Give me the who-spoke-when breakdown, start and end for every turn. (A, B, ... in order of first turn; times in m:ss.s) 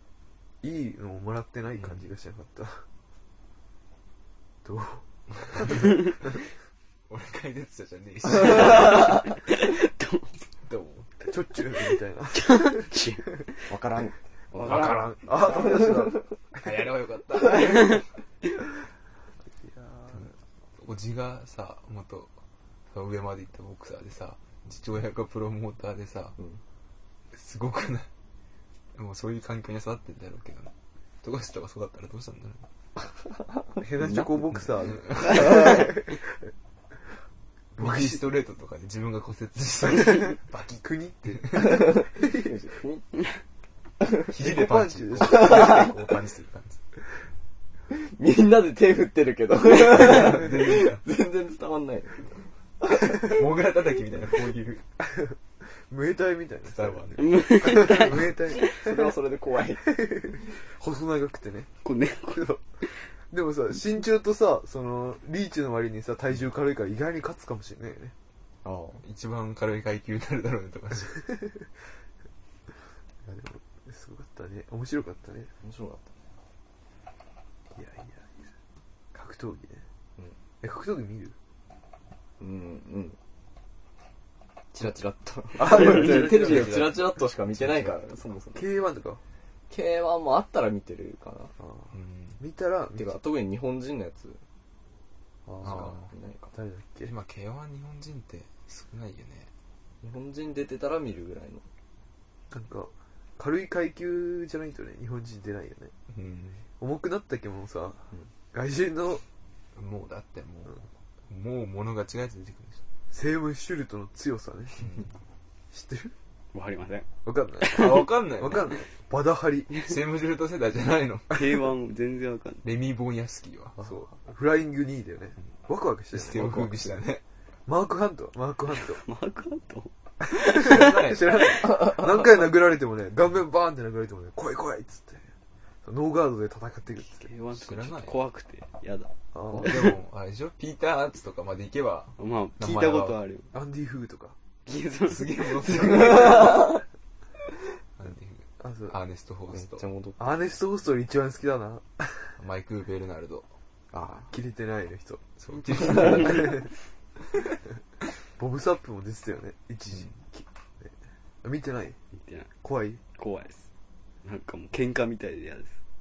0:00.6-0:02.9 A
0:01.8-0:02.1 B
0:04.6-0:05.9 A
0:07.1-0:09.2 B
0:08.7-0:10.4 C
0:10.6-0:11.3 B
0:11.3-0:13.3 A
0:12.3-0:13.7 C
0:13.7-0:16.3 D
0:14.6-0:15.2 B
0:14.6-0:16.2 A
0:16.6-0:18.0 B
0:17.6-0:18.0 C
0:19.6-0:20.4 A
0:20.8-0:22.3 B
0:22.9-0:26.4 B
0:27.3-0:28.1 B
0:29.0-0:30.7 B
0:31.2-0:32.7 B
0:33.0-0:34.7 D
0:33.8-0:36.4 A
0:34.9-0:35.7 B
0:37.8-0:38.2 A
0:37.8-0:41.7 B
0:40.7-0:42.5 A
0:41.6-0:43.1 D
0:44.0-0:44.3 D
0:44.2-0:46.8 B
0:44.4-0:46.0 A
0:45.3-0:46.0 D
0:47.9-0:52.5 D
0:49.8-0:51.0 B
0:50.0-0:50.3 A
0:52.9-0:54.8 B
0:55.0-0:59.1 A
0:56.7-0:57.4 B
0:57.2-0:58.7 C
0:58.6-1:00.0 D
0:59.8-1:01.7 A
1:01.8-1:03.1 C
1:02.3-1:02.6 A
1:03.1-1:08.1 A
1:08.6-1:09.0 D
1:09.0-1:11.3 B
1:11.3-1:11.7 A
1:13.2-1:15.5 A
1:15.6-1:16.2 D
1:17.7-1:18.5 A
1:19.1-1:19.8 A
1:20.6-1:21.4 A
1:22.4-1:23.2 D
1:24.7-1:28.7 D
1:25.6-1:27.0 A
1:25.9-1:28.0 B
1:28.6-1:29.2 A
1:29.7-1:31.5 D
1:31.6-1:33.2 A
1:31.9-1:32.4 B
1:33.0-1:34.4 D
1:35.5-1:36.0 A
1:35.6-1:36.5 D
1:35.6-1:36.1 B
1:36.5-1:37.1 A
1:37.0-1:39.5 B
1:40.0-1:41.7 D
1:42.5-1:45.9 A
1:46.1-1:46.6 B
1:46.8-1:49.2 A
1:49.8-1:52.8 B
1:53.1-1:55.0 A
1:54.8-1:55.1 B
1:55.7-1:56.1 A
1:56.5-1:57.1 C
1:57.2-1:59.7 A
1:57.7-1:58.1 C
1:57.7-1:58.8 B
1:59.7-2:00.0 C
1:59.9-2:01.5 B
2:01.3-2:02.6 C
2:02.6-2:03.8 B
2:03.8-2:07.0 A
2:06.2-2:07.2 B
2:07.7-2:09.0 A
2:08.8-2:10.6 C
2:10.2-2:15.3 A
2:10.6-2:11.9 B
2:15.8-2:17.3 A
2:17.0-2:19.7 C
2:17.6-2:18.2 B
2:19.3-2:20.0 A
2:19.6-2:23.2 B
2:22.2-2:23.5 C
2:23.5-2:24.4 A
2:24.7-2:26.7 C
2:25.1-2:26.7 B
2:28.0-2:29.9 B
2:28.6-2:29.0 A
2:29.5-2:30.3 D
2:30.2-2:32.4 A
2:32.4-2:33.5 B
2:33.9-2:34.3 D
2:34.0-2:36.7 A
2:35.4-2:36.6 B
2:36.0-2:36.5 C
2:38.2-2:42.0 A
2:42.2-2:42.5 C
2:42.6-2:43.0 A
2:43.2-2:43.6 C
2:44.2-2:45.8 C